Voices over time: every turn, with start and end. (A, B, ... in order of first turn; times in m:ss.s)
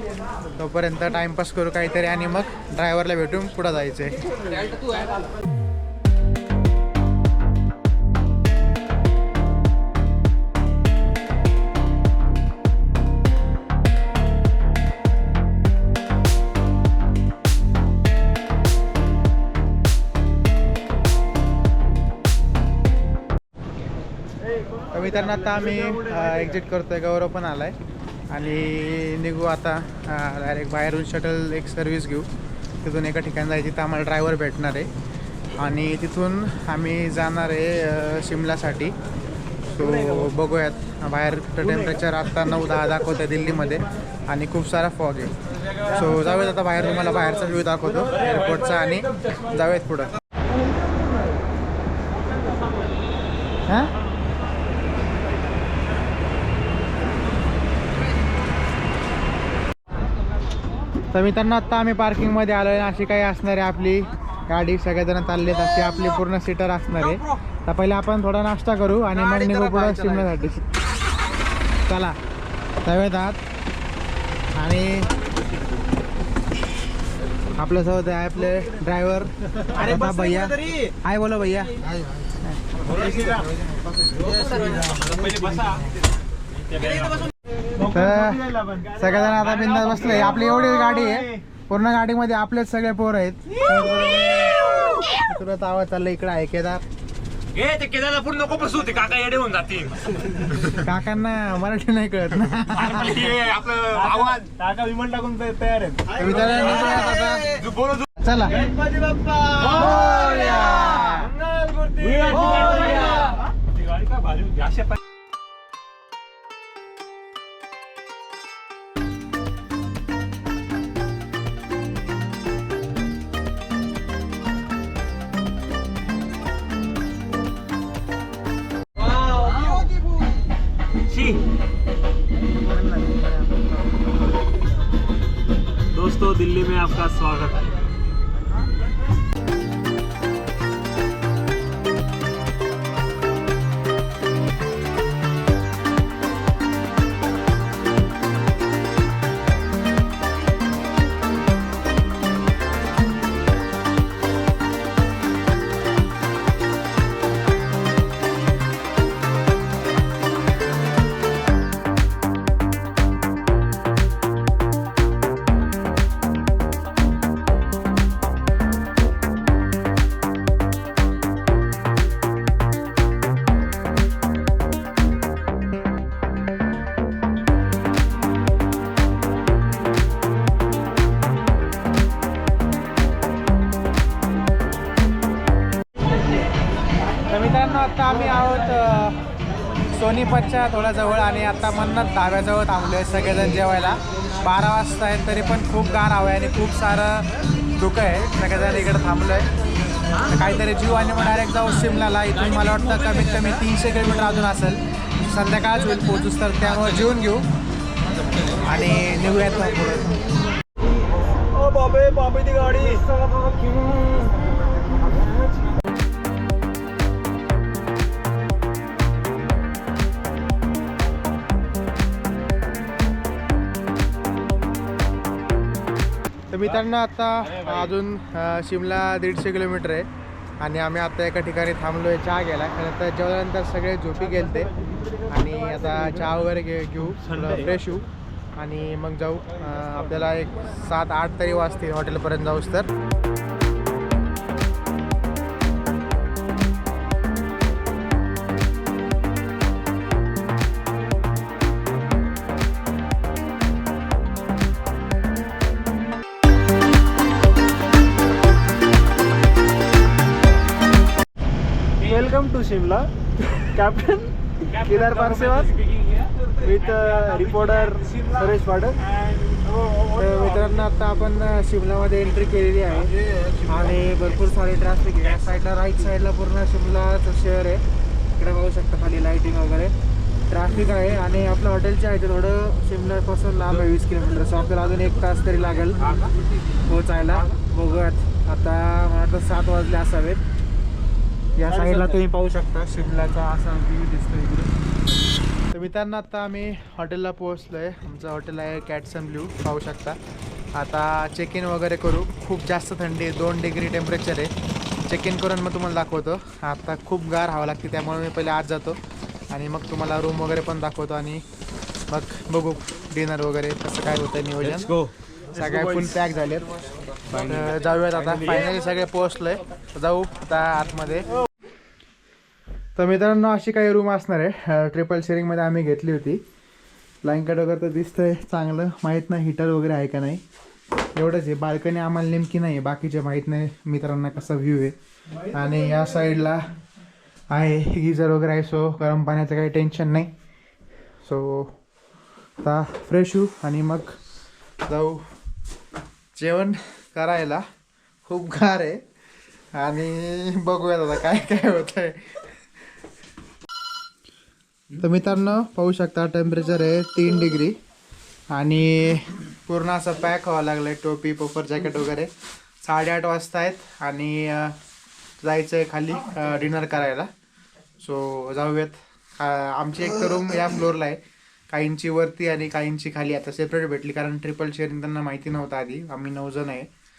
0:00.6-0:04.7 A
0:24.9-0:27.8 A
0:28.3-0:32.3 A
0:32.8-0:34.9 A
0:35.6-0:39.0 A
0:39.7-0:50.1 A
0:53.7-0:53.9 A
1:01.1-1:10.7 A
1:11.9-1:12.2 A
1:12.8-1:13.4 A
1:14.5-1:15.1 A
1:17.5-1:22.6 A
1:24.9-1:25.8 B
1:26.6-1:27.3 B
1:27.8-1:36.8 A
1:37.5-1:40.0 B
1:40.6-1:43.4 A
1:42.8-1:44.6 B
1:44.0-1:46.1 C
1:46.1-1:47.5 A
1:47.6-1:48.1 B
1:48.2-1:48.7 A
1:49.0-1:49.6 C
1:49.6-1:51.4 A
1:51.4-1:53.3 C
1:54.0-1:54.9 B
2:11.1-2:11.4 C
2:12.6-2:13.6 A
2:15.9-2:17.6 C
3:07.3-3:09.2 A
3:09.9-3:19.5 A
3:20.2-3:27.4 A
3:28.6-3:30.2 A
3:31.6-3:33.8 C
3:46.5-3:50.1 A
3:50.6-3:54.7 A
3:55.2-4:02.9 A
4:22.0-4:30.0 C
4:30.1-4:37.8 A
4:38.4-4:39.9 A
4:40.5-4:46.2 A
4:46.8-4:50.4 A
4:51.6-4:54.7 A
4:55.7-5:00.2 A
5:00.8-5:04.5 A
5:05.0-5:09.0 A
5:09.5-5:11.4 A
5:12.1-5:16.8 A
5:17.3-5:21.3 A
5:23.0-5:26.4 A
5:27.2-5:30.4 A
5:31.2-5:36.6 A
5:37.5-5:40.3 A
5:41.2-5:41.8 A
5:42.6-5:44.1 A
5:44.8-5:45.3 A
5:46.4-5:47.6 A
5:48.2-5:49.0 A
5:49.8-5:52.6 A
5:54.9-5:57.8 A
5:58.5-6:02.3 A
6:02.8-6:04.8 A
6:05.4-6:07.3 A
6:08.0-6:16.9 A